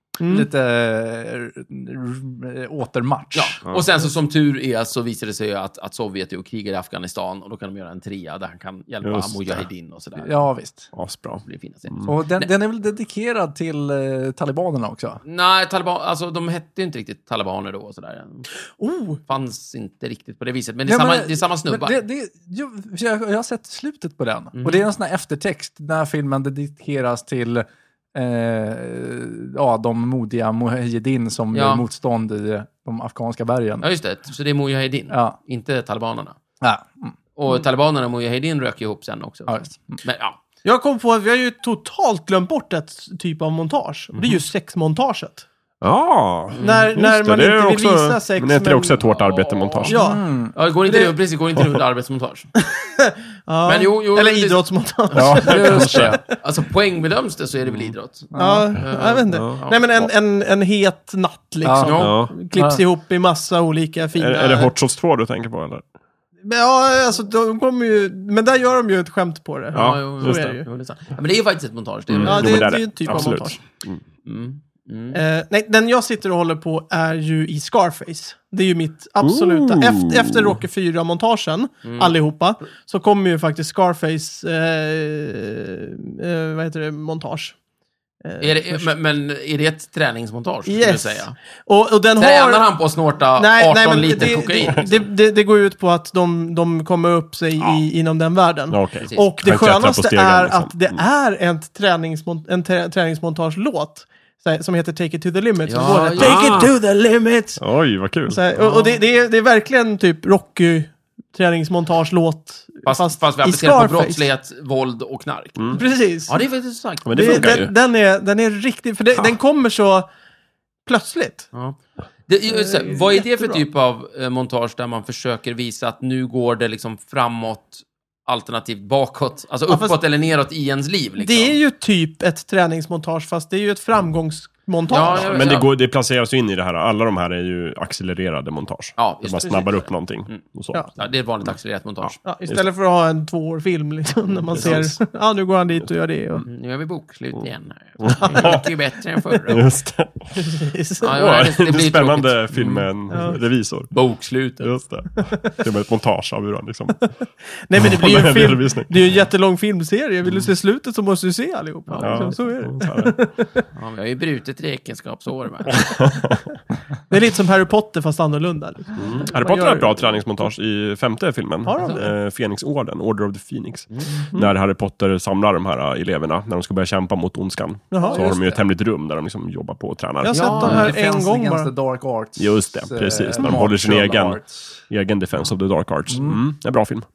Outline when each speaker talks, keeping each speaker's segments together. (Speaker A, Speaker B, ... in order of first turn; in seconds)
Speaker A: 0.2-0.5, 18.8-19.2, 40.6-45.5, 46.6-49.0, 49.9-50.2, 50.9-51.2, 52.7-56.2, 58.4-64.7, 66.4-70.7, 72.2-73.6, 75.1-87.6, 88.2-88.9, 90.7-92.7, 93.4-107.6, 108.3-114.2, 115.7-116.4, 117.2-120.1, 120.9-121.5, 122.5-123.6, 129.7-130.0, 131.2-135.4, 142.2-146.5, 148.2-148.6, 150.3-151.2, 153.1-153.4, 157.7-163.7, 167.1-170.2, 171.6-172.1, 177.9-178.2, 180.2-181.7
Speaker B: 0.2-3.6, 10.2-10.9, 12.1-15.2, 20.9-33.9, 35.1-35.4, 36.6-37.1, 39.5-40.0, 49.9-50.5, 55.4-56.2, 58.3-58.7, 61.6-61.9, 178.0-178.7, 180.6-184.8, 186.1-186.4
Speaker C: 3.4-10.4, 11.4-12.5, 15.2-18.5, 19.3-22.0, 24.5-24.9, 31.5-31.8, 33.8-36.4, 37.4-40.4, 44.1-44.4, 46.5-46.9, 49.0-52.5, 53.6-55.5, 56.4-60.1, 61.8-62.3, 69.7-73.3, 74.2-75.2, 81.8-82.2, 88.4-91.4, 92.2-95.1, 99.0-99.3, 105.7-106.5, 112.8-117.6, 121.5-131.6, 134.9-135.7, 139.0-140.4, 140.9-142.2, 144.5-144.8, 146.4-149.7, 151.0-153.4, 153.9-154.8, 161.9-162.3, 163.8-165.9, 173.9-174.2, 180.3-180.9
Speaker D: 9.0-9.7, 10.9-12.1, 45.8-49.9, 55.1-56.2, 59.3-59.6, 62.0-62.3, 64.2-65.8, 69.7-70.5, 72.1-74.0, 79.2-80.6, 98.7-101.0, 106.2-106.8, 107.6-108.4, 117.0-117.7, 135.1-140.9, 141.5-142.6, 144.5-144.9, 148.0-148.6, 149.5-150.4, 151.1-153.9, 154.6-157.1, 157.8-159.0, 162.0-163.2, 165.7-166.5, 169.0-180.9, 182.4-187.1